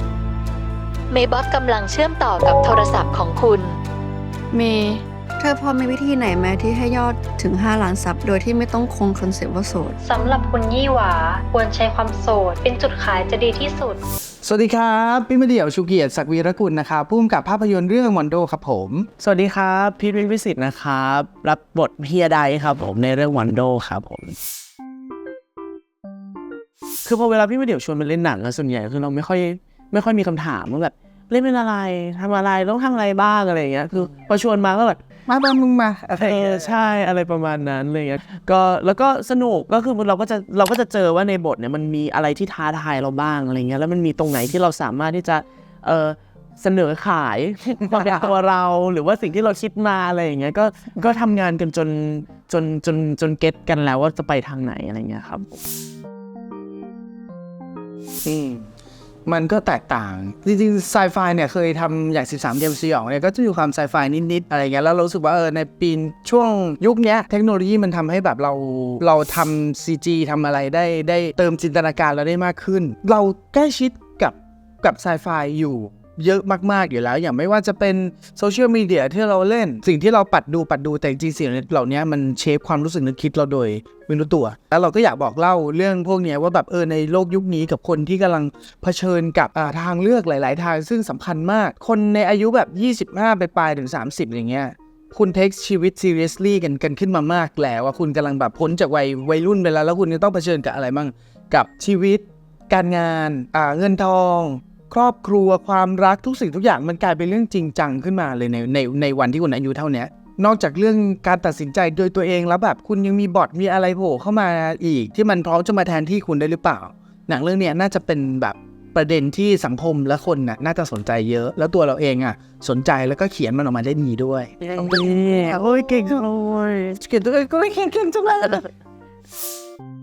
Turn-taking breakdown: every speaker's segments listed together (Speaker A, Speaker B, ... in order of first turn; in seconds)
Speaker A: 1.1-3.8
Speaker B: 4.5-10.0
Speaker C: 10.0-14.0
Speaker D: 14.4-19.1, 35.3-36.8, 58.2-58.7, 59.3-125.1, 127.0-128.5
Speaker E: 19.2-24.4, 27.0-35.0, 36.2-55.6, 124.6-127.1